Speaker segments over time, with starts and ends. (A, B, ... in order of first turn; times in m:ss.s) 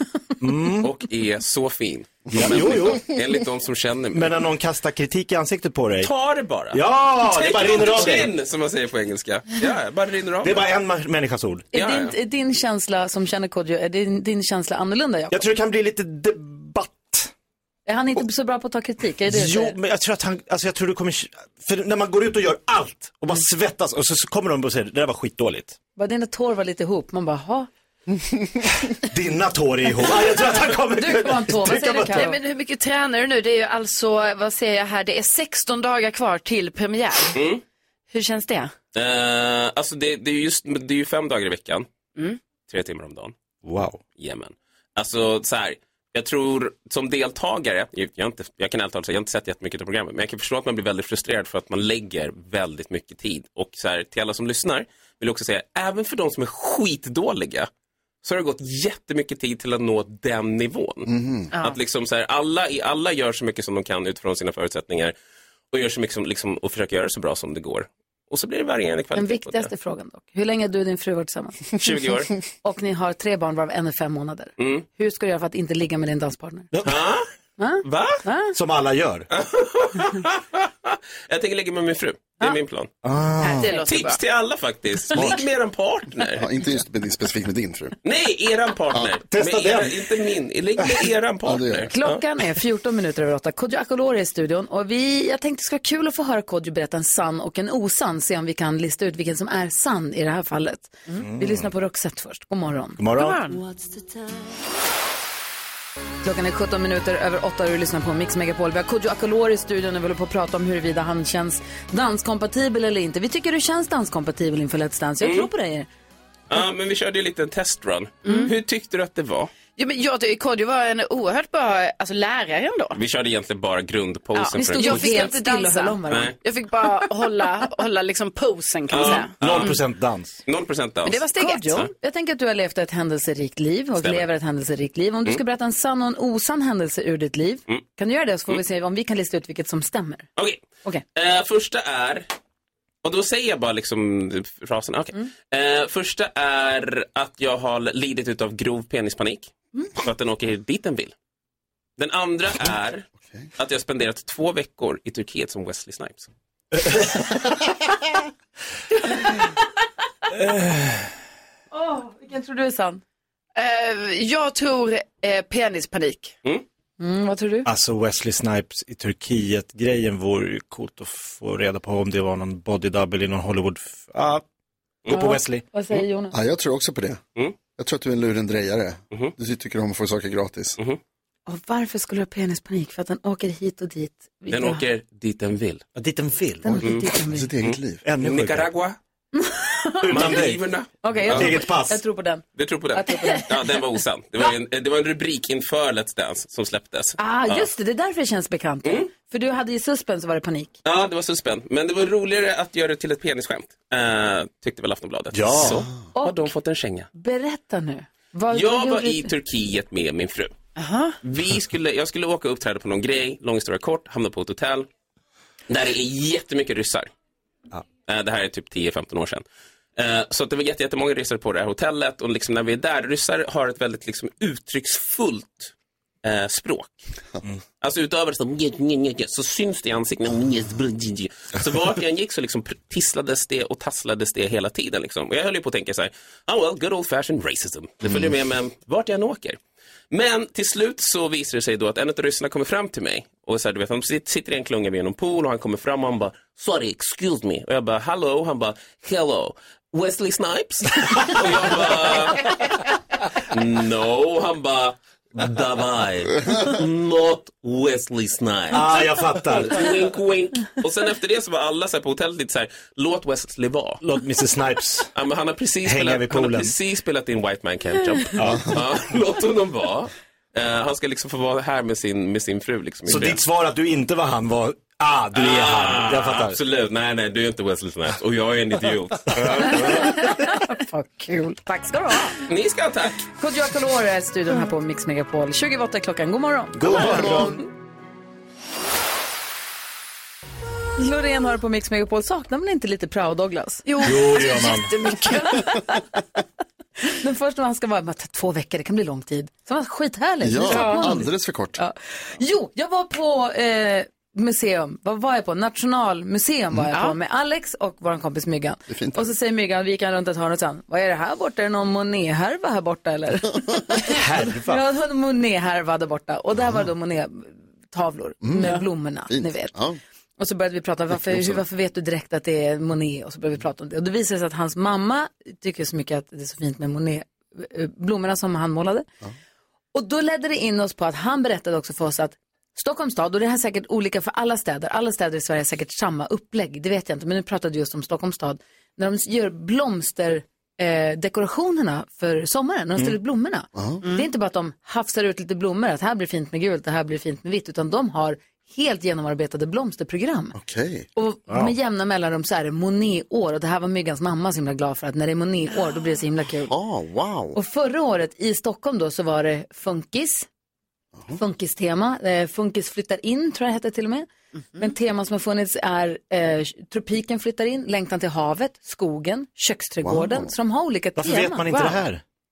0:00.4-0:00.9 A
0:00.8-0:04.4 B
0:02.3-0:03.1 A
0:04.1-0:06.1 A
0:06.0-0:10.7 B
0:06.7-0:08.3 A
0:10.4-0:11.7 A
0:11.7-0:12.2 B
0:11.7-0:15.4 C
0:15.3-0:17.3 A
0:17.8-0:19.8 C
0:19.3-0:25.8 A
0:26.0-0:27.7 C
0:29.0-0:32.3 A
0:31.0-0:32.4 C
0:31.8-0:37.4 D
0:37.3-0:37.6 B
0:38.1-0:38.7 D
0:38.9-0:41.9 B
0:42.7-0:43.3 B
0:43.6-0:44.0 A
0:44.1-0:57.7 B
0:58.2-1:05.1 B
1:01.0-1:01.5 E
1:05.7-1:09.7 B
1:09.1-1:11.7 C
1:11.8-1:12.3 B
1:12.6-1:16.7 C
1:14.6-1:14.8 B
1:16.7-1:17.0 A
1:16.8-1:17.3 B
1:17.6-1:18.5 C
1:17.8-1:18.2 B
1:18.5-1:19.3 A
1:19.3-1:22.9 B
1:23.0-1:23.7 A
1:23.4-1:24.2 D
1:23.7-1:26.4 B
1:26.4-1:27.9 E
1:28.0-1:32.2 B
1:29.3-1:30.2 A
1:31.4-1:31.9 E
1:31.9-1:43.0 C
1:41.2-1:41.7 A
1:43.0-1:43.5 A
1:43.2-1:43.6 D
1:46.2-1:55.9 C
1:55.2-1:55.5 B
1:56.5-1:59.5 B
1:58.2-1:58.5 D
1:59.8-2:03.0 D
2:02.9-2:05.3 B
2:04.4-2:09.8 D
2:04.6-2:06.3 C
2:06.1-2:06.3 B
2:08.9-2:09.8 B
2:09.4-2:10.4 A
2:10.4-2:11.9 B
2:11.0-2:11.8 D
2:11.4-2:20.2 C
2:14.0-2:14.3 B
2:20.4-2:20.6 B
2:21.1-2:22.3 B
2:23.0-2:31.1 B
2:32.0-2:36.3 B
2:40.3-2:41.1 A
2:41.7-2:43.0 C
2:43.5-2:46.3 D
2:47.0-2:47.7 C
2:47.6-2:54.4 A
2:55.0-2:55.6 A
2:55.1-2:56.3 C
2:56.3-2:57.2 E
2:57.8-3:00.8 E
3:01.5-3:04.8 C
3:04.5-3:05.8 B
3:06.0-3:06.8 A
3:06.6-3:07.5 C
3:06.6-3:08.0 E
3:07.6-3:09.0 B
3:08.0-3:08.7 A
3:09.3-3:10.3 C
3:10.0-3:10.6 A
3:10.1-3:11.6 B
3:11.0-3:13.5 C
3:11.3-3:12.0 A
3:12.5-3:17.7 B
3:17.2-3:20.7 C
3:20.8-3:27.1 B
3:25.3-3:25.8 A
3:26.1-3:26.5 C
3:27.1-3:29.3 C
3:28.5-3:30.5 B
3:30.8-3:31.2 D
3:31.2-3:34.9 B
3:35.7-3:37.1 B
3:38.0-3:39.4 B
3:40.0-3:45.7 B
3:46.2-3:47.0 B
3:47.8-3:59.6 B
4:00.1-4:12.6 B
4:13.5-4:24.0 B
4:18.7-4:19.9 A
4:24.0-4:25.1 A
4:25.1-4:33.4 B
4:25.8-4:26.7 A
4:28.4-4:28.8 A
4:33.0-4:36.6 A
4:35.3-4:40.2 B
4:39.8-4:42.4 C
4:42.4-4:43.3 B
4:43.4-4:47.5 C
4:46.8-4:47.6 A
4:47.0-4:47.4 E
4:51.0-4:53.9 C
4:53.8-4:55.8 D
4:54.0-4:54.9 A
4:57.0-5:19.7 C
5:00.4-5:01.8 E
5:00.7-5:01.1 D
5:06.9-5:07.2 D
5:08.9-5:09.3 E
5:14.0-5:14.8 A
5:18.4-5:18.8 E
5:19.3-5:20.0 E
5:20.4-5:29.1 C
5:21.3-5:21.6 E
5:29.9-5:50.6 C
5:43.7-5:44.0 E
5:50.5-5:51.1 E
5:51.2-5:56.7 C
5:51.5-5:51.7 A
5:56.6-5:57.6 E
5:57.5-6:00.5 C
6:01.3-6:11.7 C
6:10.0-6:10.5 E
6:11.2-6:12.2 A
6:11.7-6:12.0 D